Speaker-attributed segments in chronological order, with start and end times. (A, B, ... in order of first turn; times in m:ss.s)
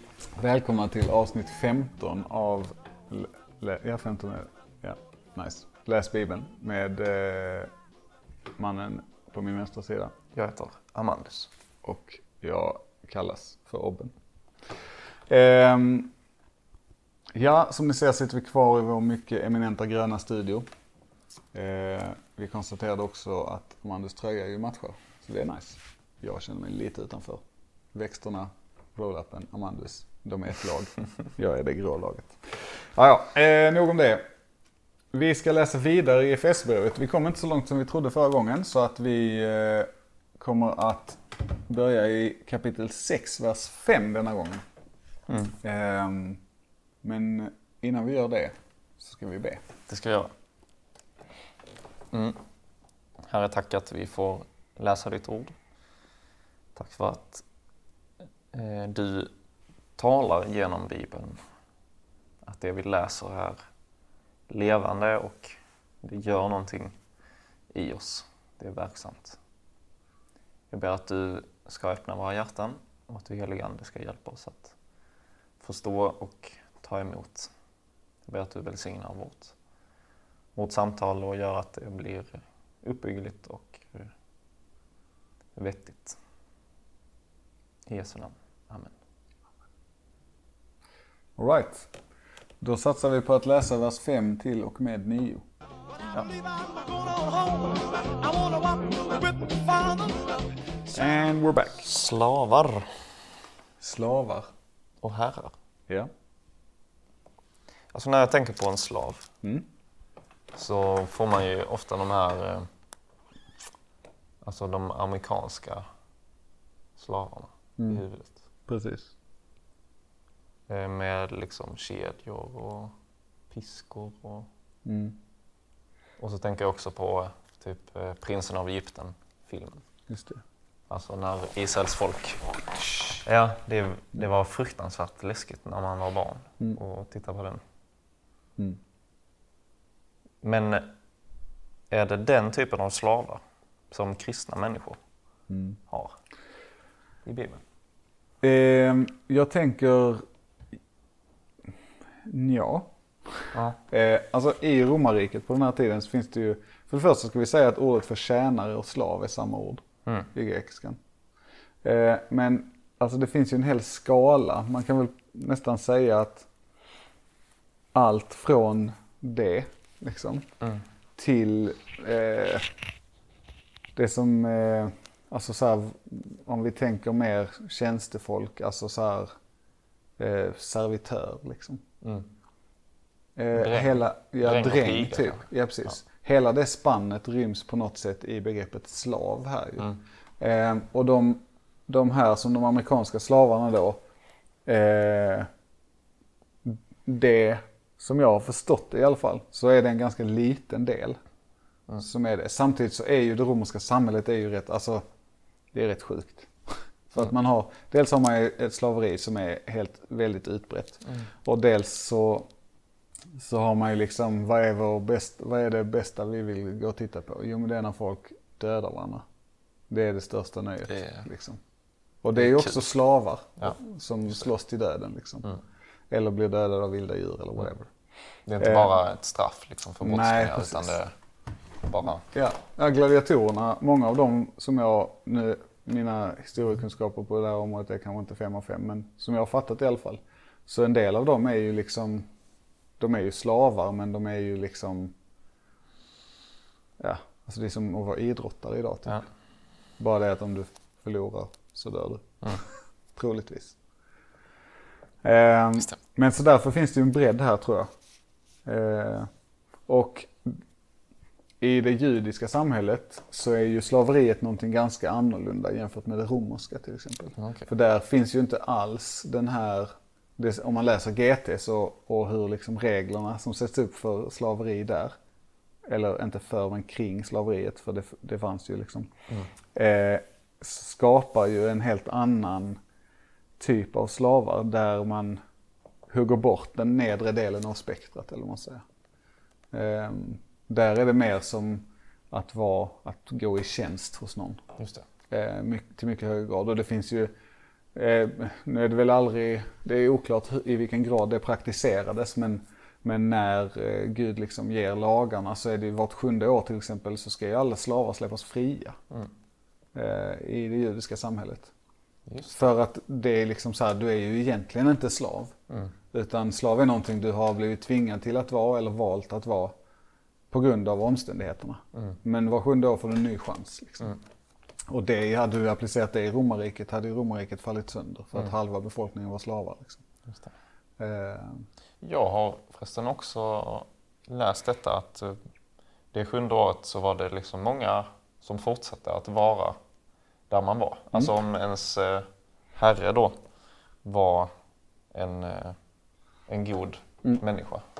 0:00.4-0:07.7 A
0:08.6-0:10.1 A
0:10.3-0:11.5 B
0:11.8-0:14.1 A
0:15.3-0:16.1 A
0:17.3-0:20.7 A
0:21.5-0:34.2 A
0:35.1-0:44.6 A
0:45.3-0:45.5 B
0:45.6-0:46.4 A
0:47.0-0:49.6 A
0:49.9-0:50.3 B
0:52.1-0:52.4 B
0:53.2-0:55.5 B
0:56.7-0:57.4 B
0:58.5-0:59.3 B
1:00.0-1:01.4 B
1:02.4-1:03.6 B
1:04.5-1:06.9 B
1:07.7-1:09.4 B
1:10.7-1:14.7 B
1:15.6-1:17.5 B
1:18.2-1:19.5 B
1:20.6-1:24.1 B
1:25.6-1:26.2 B
1:27.9-1:29.0 B
1:31.4-1:31.9 A
1:32.6-1:35.4 A
1:36.1-1:41.1 C
1:40.9-1:41.8 A
1:41.8-1:43.1 B
1:43.8-1:44.5 A
1:45.0-1:45.5 B
1:47.9-1:49.3 B
1:50.5-1:52.7 B
1:54.4-1:55.8 B
1:57.0-1:58.4 B
1:58.7-1:59.1 A
2:00.7-2:02.9 B
2:03.5-2:04.5 B
2:04.8-2:05.2 A
2:06.2-2:09.8 B
2:10.1-2:10.4 A
2:10.9-2:12.5 B
2:13.2-2:17.6 B
2:20.4-2:20.9 B
2:21.9-2:25.0 B
2:25.5-2:25.8 A
2:25.9-2:26.2 B
2:27.2-2:27.6 B
2:28.4-2:30.2 A
2:32.2-2:41.0 A
2:41.8-2:46.5 A
2:47.9-2:50.5 A
2:51.2-2:52.7 A
2:53.9-2:59.3 A
3:00.2-3:01.8 A
3:02.0-3:02.3 B
3:03.4-3:14.0 A
3:03.5-3:05.4 B
3:14.6-3:15.5 A
3:16.6-3:21.2 A
3:22.0-3:25.0 A
3:25.7-3:32.5 A
3:33.3-3:39.2 A
3:39.9-3:41.6 A
3:40.9-3:41.2 B
3:42.2-3:45.5 A
3:42.4-3:42.8 B
3:46.1-3:47.9 A
3:48.5-3:51.1 B
3:48.6-3:48.9 A
3:50.0-3:51.0 A
3:51.8-3:52.2 B
3:52.3-4:02.3 A
4:03.0-4:05.1 A
4:07.0-4:09.2 A
4:10.0-4:13.7 A
4:15.2-4:17.9 A
4:18.6-4:19.3 A
4:19.9-4:20.6 A
4:21.6-4:35.2 A
4:27.4-4:27.7 B
4:35.8-4:39.1 A
4:39.7-4:42.8 A
4:43.6-4:45.4 A
4:46.1-4:48.8 A
4:49.7-4:54.6 A
4:54.8-4:55.0 B
4:55.3-4:57.3 A
4:57.9-5:09.0 A
5:09.9-5:11.7 A
5:12.3-5:12.6 B
5:12.5-5:15.5 A
5:16.1-5:19.8 A
5:20.5-5:24.2 A
5:24.9-5:30.0 A
5:31.0-5:31.6 A
5:32.0-5:35.4 B
5:36.1-5:39.8 B
5:40.5-5:43.4 B
5:44.0-5:44.5 B
5:45.1-5:45.8 B
5:46.5-5:47.8 B